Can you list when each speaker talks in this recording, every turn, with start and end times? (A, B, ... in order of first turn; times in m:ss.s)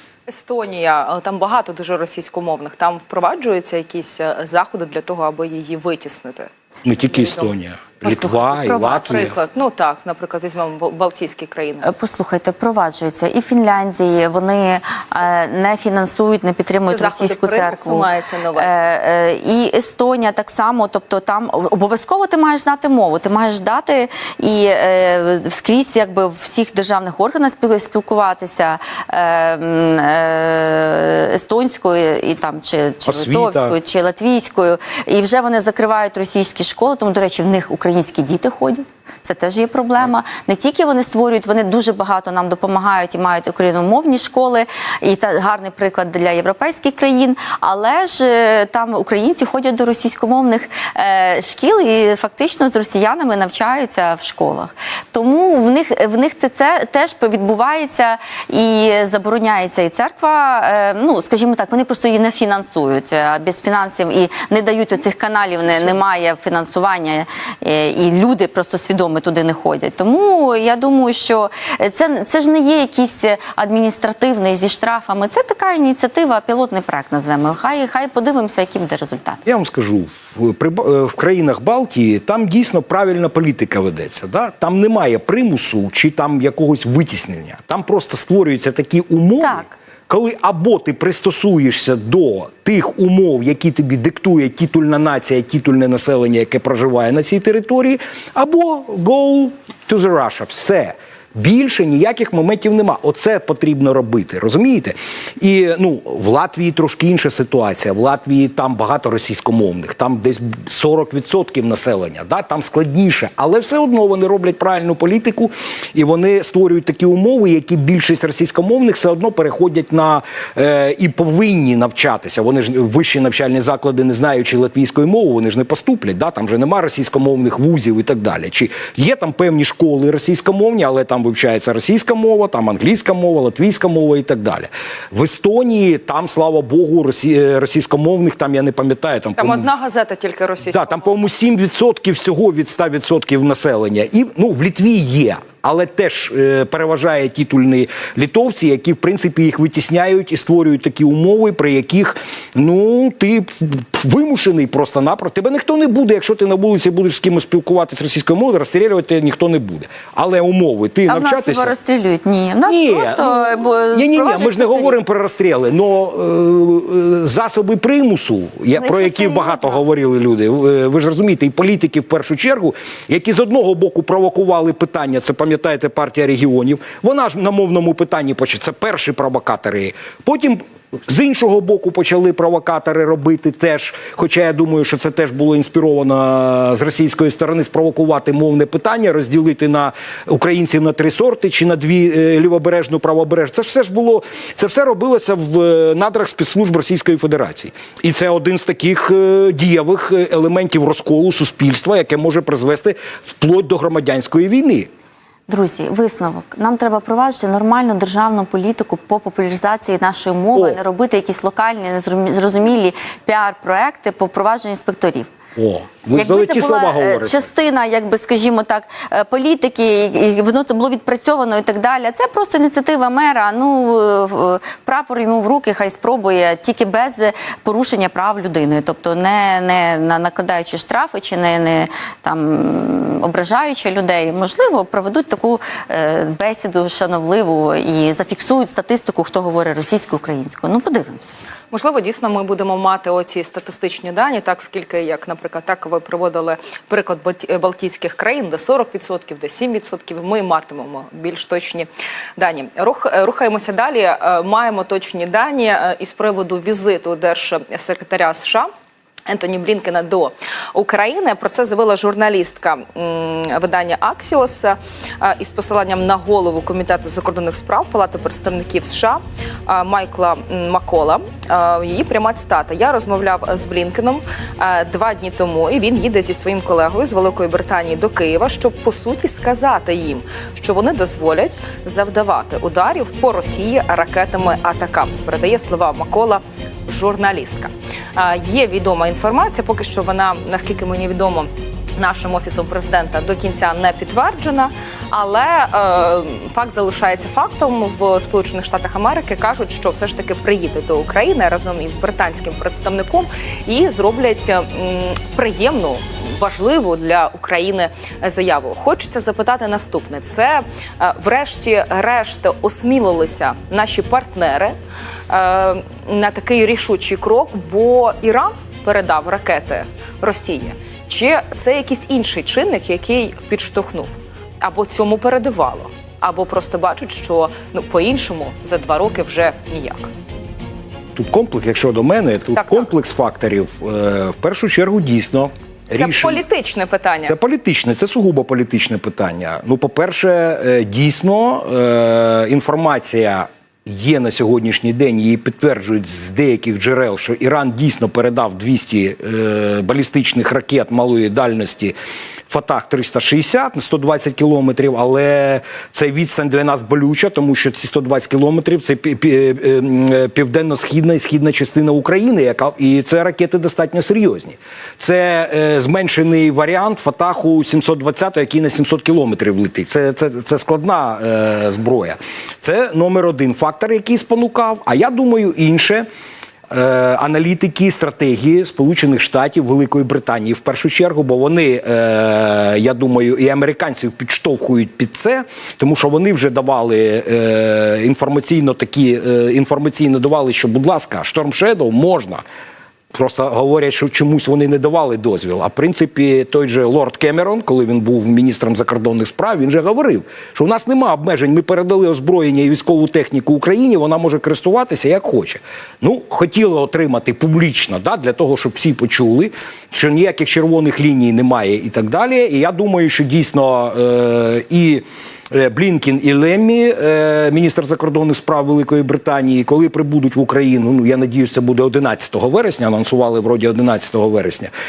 0:00.3-0:07.5 A
0:06.8-0:09.4 B
0:08.0-0:09.2 C
0:08.6-0:11.8 A
0:11.8-1:19.4 C
0:16.9-0:18.8 A
0:33.0-0:33.8 B
1:19.4-2:19.7 B
1:29.4-1:29.7 C
2:19.4-2:21.1 A
2:20.7-2:41.7 B
2:41.1-2:45.0 C
2:42.6-3:24.9 B
2:48.7-2:49.8 C
3:25.5-3:35.3 C
3:30.5-3:30.8 B
3:35.6-3:37.5 B
3:36.1-4:01.4 C
4:01.7-4:18.7 A
4:19.3-5:14.8 A
5:15.3-5:30.1 A
5:31.1-5:36.4 B
5:35.9-5:37.3 A
5:37.2-5:51.9 B
5:52.5-6:16.1 B
6:16.7-6:32.4 B
6:33.1-7:04.7 B